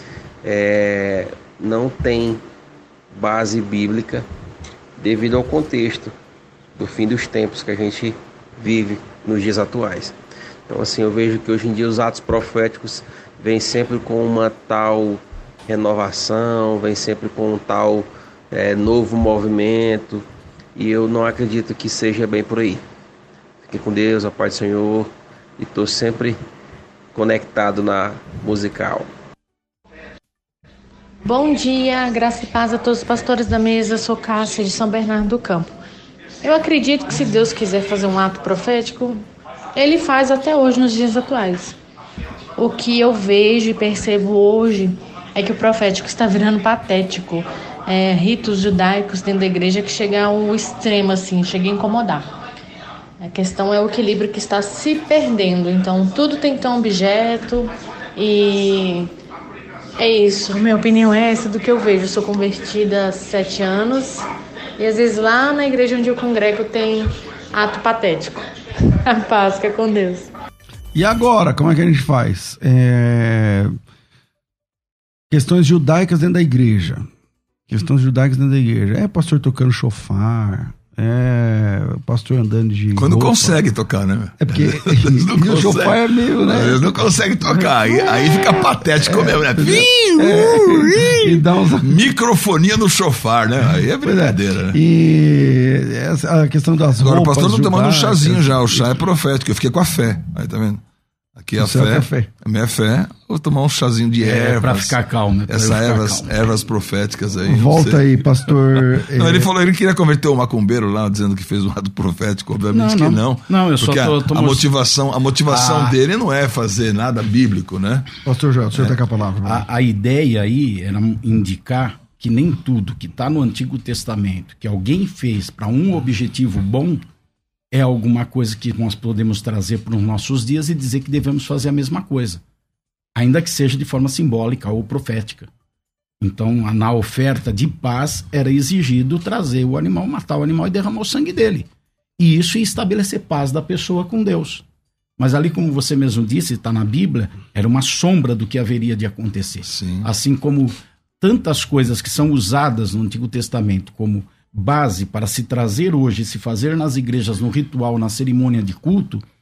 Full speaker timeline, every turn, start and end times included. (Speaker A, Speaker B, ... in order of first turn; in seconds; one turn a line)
Speaker A: 0.4-2.4
Speaker A: 3.1-4.2
Speaker A: 5.0-6.1
Speaker A: 6.8-10.1
Speaker A: 10.7-20.2
Speaker A: 20.8-22.8
Speaker A: 23.6-26.4
Speaker A: 27.1-29.1
Speaker B: 31.2-35.7
Speaker B: 36.4-39.2
Speaker B: 39.7-41.8
Speaker B: 42.6-52.3
Speaker B: 53.2-59.1
Speaker B: 60.0-64.2
Speaker B: 64.8-70.3
Speaker C: 70.9-73.7
Speaker C: 75.3-77.1
Speaker C: 77.7-83.6
Speaker D: 83.0-94.8
Speaker C: 84.4-92.1
Speaker C: 94.0-99.0
Speaker D: 97.0-100.8
Speaker D: 101.4-105.0
Speaker C: 101.5-102.3
Speaker E: 104.2-106.3
Speaker D: 105.5-118.1
Speaker C: 107.5-109.5
Speaker E: 112.7-114.7
Speaker E: 115.5-116.0
Speaker C: 118.2-119.7
Speaker E: 119.4-127.0
Speaker E: 127.7-132.4
Speaker E: 133.2-135.5
Speaker E: 136.2-141.7
Speaker E: 142.2-144.6
Speaker E: 145.2-159.2
Speaker D: 149.6-150.1